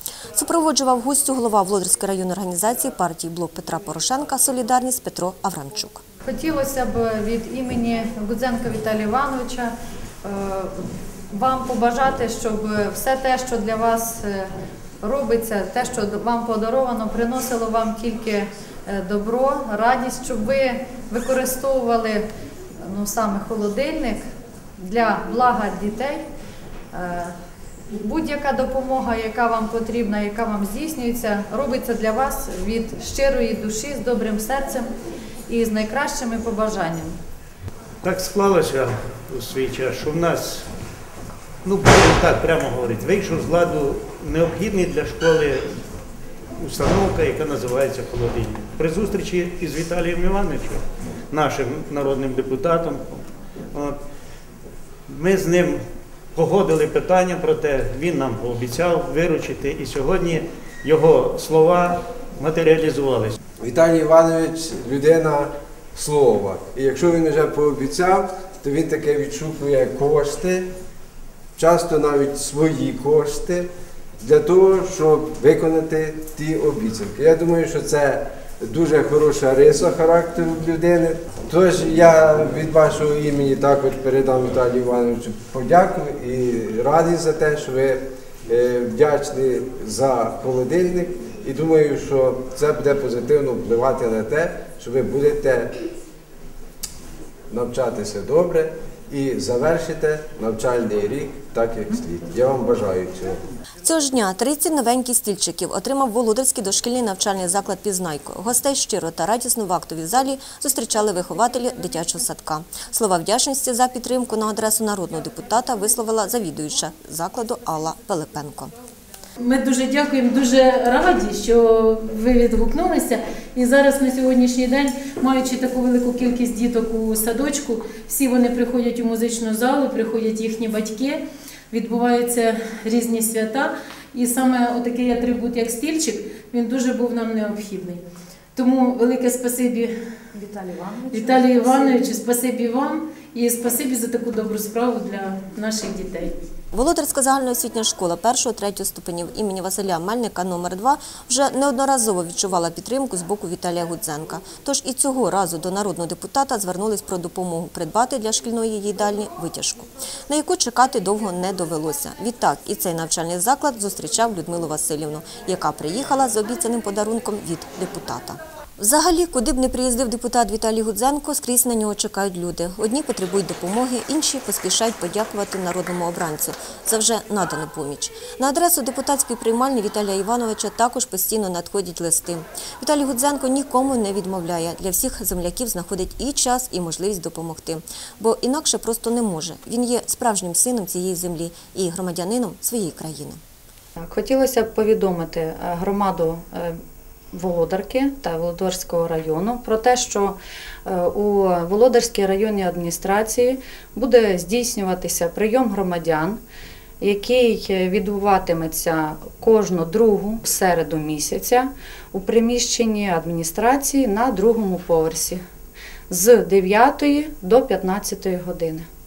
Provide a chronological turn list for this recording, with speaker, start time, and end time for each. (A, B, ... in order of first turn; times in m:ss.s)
0:00.3-0:06.0 A
0:06.2-0:09.7 B
0:10.2-0:14.5 B
0:15.0-0:22.2 B
0:22.8-0:24.2 B
0:24.8-0:26.2 B
0:26.9-0:27.3 B
0:27.9-0:34.9 B
0:35.5-0:37.2 B
0:38.0-0:40.6 C
0:41.6-0:45.7 C
0:46.6-0:53.0 C
0:55.1-0:55.8 C
0:56.4-1:03.4 C
1:03.6-1:10.7 D
1:11.6-1:13.7 D
1:14.2-1:35.7 D
1:37.5-1:43.4 D
1:43.8-1:58.7 A
1:59.4-2:18.0 E
2:18.6-2:19.9 E
2:20.4-2:20.7 B
2:21.1-2:26.3 E
2:26.7-3:13.4 A
3:14.0-3:16.8 B
3:17.3-3:26.4 B
3:27.0-3:35.4 B
3:36.1-3:38.9 B